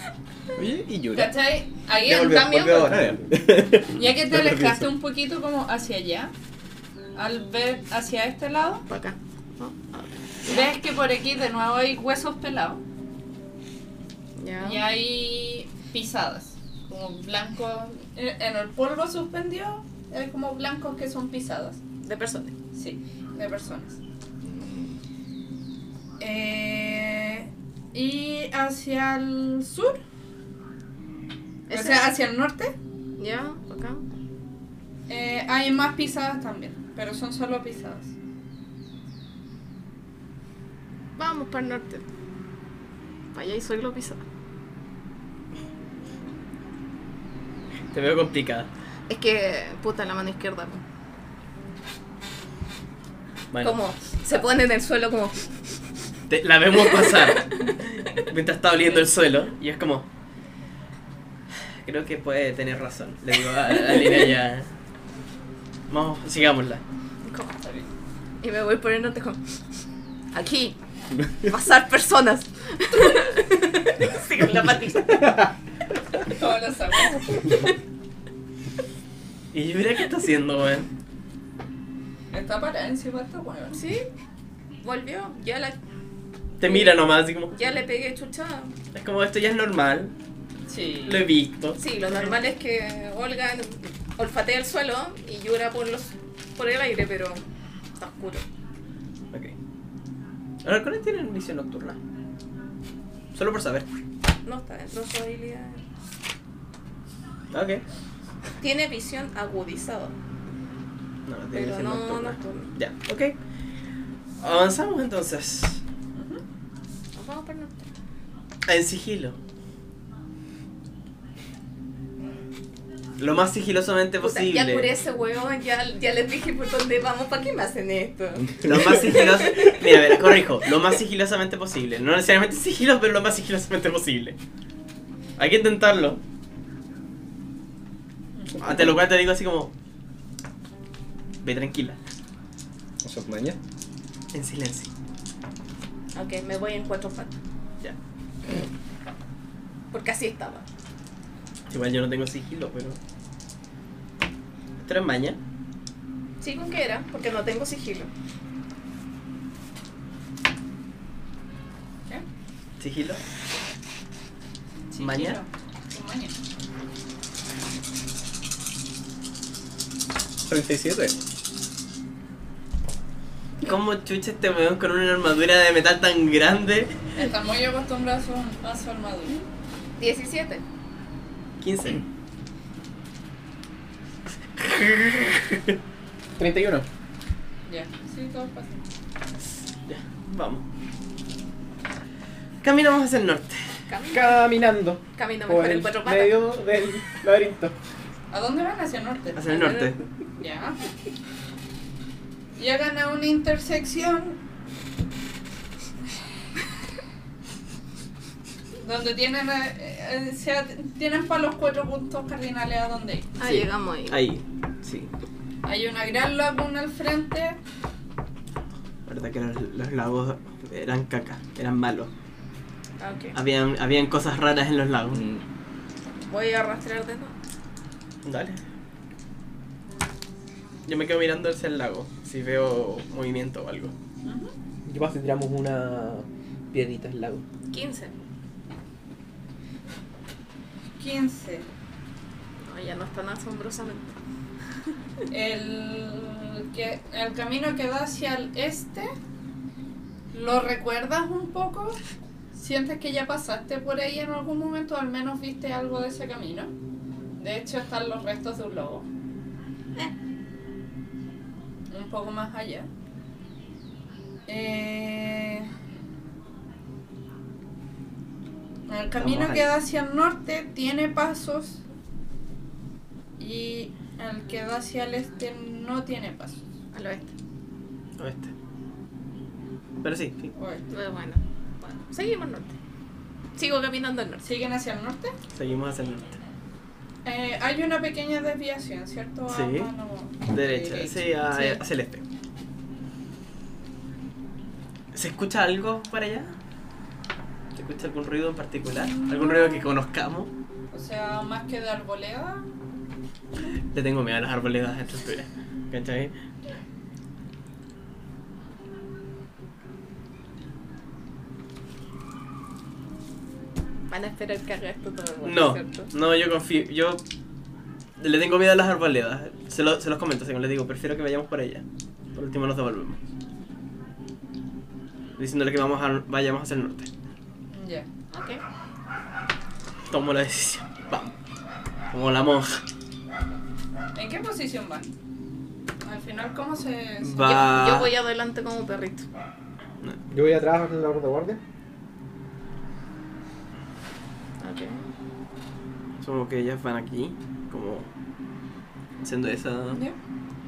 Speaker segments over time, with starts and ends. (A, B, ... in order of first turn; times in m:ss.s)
0:00.6-0:01.3 A
0:01.1-0:02.8 B
0:02.0-0:03.8 C
0:02.8-0:04.9 A
0:03.9-0:06.3 B
0:07.1-0:08.8 B
0:08.9-0:10.7 D
0:10.4-0:12.8 B
0:14.4-0:14.8 D
0:14.6-0:21.8 B
0:22.0-0:22.5 D
0:22.7-0:24.0 B
0:24.4-0:25.0 A
0:26.2-0:30.0 B
0:31.7-0:32.1 D
0:31.7-0:32.7 B
0:33.2-0:34.0 D
0:35.1-0:38.1 B
0:41.2-0:42.0 D
0:43.3-0:44.2 D
0:47.9-0:48.7 C
0:49.1-0:50.8 D
0:53.5-0:53.8 C
0:53.6-0:55.4 D
0:56.3-1:00.1 C
0:56.9-0:57.7 D
1:01.8-1:04.7 C
1:05.9-1:06.8 C
1:07.2-1:07.5 D
1:07.6-1:07.9 B
1:08.4-1:09.4 D
1:10.3-1:10.8 D
1:11.4-1:15.4 D
1:16.2-1:17.5 B
1:19.5-1:20.9 C
1:22.3-1:23.8 B
1:23.7-1:24.1 D
1:24.8-1:25.8 D
1:26.6-1:27.5 C
1:26.6-1:28.7 D
1:28.9-1:30.1 C
1:30.7-1:31.3 B
1:31.0-1:31.8 C
1:31.8-1:37.4 D
1:38.0-1:38.4 D
1:40.6-1:42.0 C
1:43.3-1:43.8 C
1:44.4-1:45.8 D
1:47.5-1:47.8 C
1:48.6-1:50.1 D
1:51.3-1:53.3 C
1:51.5-1:52.7 D
1:54.4-1:55.8 C
1:56.1-1:56.4 B
1:57.1-1:57.8 D
1:58.7-1:59.4 C
2:03.2-2:04.9 C
2:04.2-2:10.0 D
2:08.6-2:08.9 A
2:08.6-2:14.4 C
2:15.4-2:16.2 C
2:18.4-2:18.6 B
2:18.6-2:19.7 C
2:21.4-2:22.0 C
2:23.0-2:23.6 A
2:24.3-2:24.9 C
2:26.1-2:27.3 D
2:29.9-2:30.6 D
2:31.7-2:33.0 C
2:34.8-2:35.4 C
2:36.4-2:38.1 D
2:42.8-2:43.2 C
2:44.9-2:46.4 B
2:45.0-2:45.4 C
2:50.4-2:51.1 A
2:53.6-2:56.9 C
2:57.1-2:59.4 B
3:00.0-3:00.6 D
3:01.6-3:02.0 C
3:04.6-3:05.8 C
3:06.4-3:06.8 E
3:07.6-3:08.9 B
3:09.8-3:10.6 C
3:12.6-3:13.6 C
3:13.9-3:14.6 D
3:14.1-3:17.7 E
3:15.1-3:16.5 D
3:18.3-3:19.5 B
3:19.4-3:20.0 C
3:19.5-3:19.9 D
3:20.4-3:20.8 B
3:22.6-3:24.4 B
3:28.8-3:33.3 B
3:33.4-3:34.3 D
3:33.4-3:35.1 C
3:35.6-3:37.6 B
3:39.1-3:42.1 C
3:43.0-3:43.3 D
3:43.3-3:45.2 C
3:45.1-3:45.4 A
3:46.3-3:47.3 D
3:48.2-3:48.6 C
3:50.8-3:53.9 C
3:54.2-3:54.5 B
3:54.8-3:57.4 E
3:57.7-3:58.1 D
4:01.0-4:01.7 B
4:02.6-4:04.1 D
4:05.3-4:09.1 B
4:10.3-4:12.0 B
4:12.5-4:16.7 B
4:17.4-4:19.1 B
4:21.9-4:22.9 B
4:24.5-4:25.7 B
4:28.9-4:31.8 B
4:29.2-4:29.7 C
4:33.4-4:36.6 B
4:36.9-4:37.3 D
4:38.2-4:38.5 C
4:40.0-4:40.5 C
4:40.6-4:40.9 B
4:40.9-4:42.7 D
4:43.6-4:44.5 D
4:44.4-4:45.4 B
4:45.5-4:46.4 C
4:47.2-4:51.3 B
4:49.5-4:49.9 C
4:50.5-4:52.2 C
4:51.5-4:51.8 D
4:55.1-4:56.5 C
4:57.7-5:00.5 C
5:00.9-5:02.7 B
5:03.9-5:06.3 C
5:14.1-5:16.1 D
5:15.4-5:17.2 C
5:18.2-5:21.8 C
5:22.3-5:23.2 C
5:25.4-5:27.1 C
5:27.7-5:28.1 B
5:28.3-5:28.6 D
5:30.1-5:31.3 C
5:32.1-5:32.8 C
5:34.1-5:35.1 B
5:36.0-5:37.6 B
5:37.2-5:38.1 C
5:37.4-5:39.2 D
5:40.3-5:41.6 E
5:44.6-5:45.0 D
5:46.2-5:48.1 C
5:49.2-5:50.0 C
5:49.9-5:50.2 B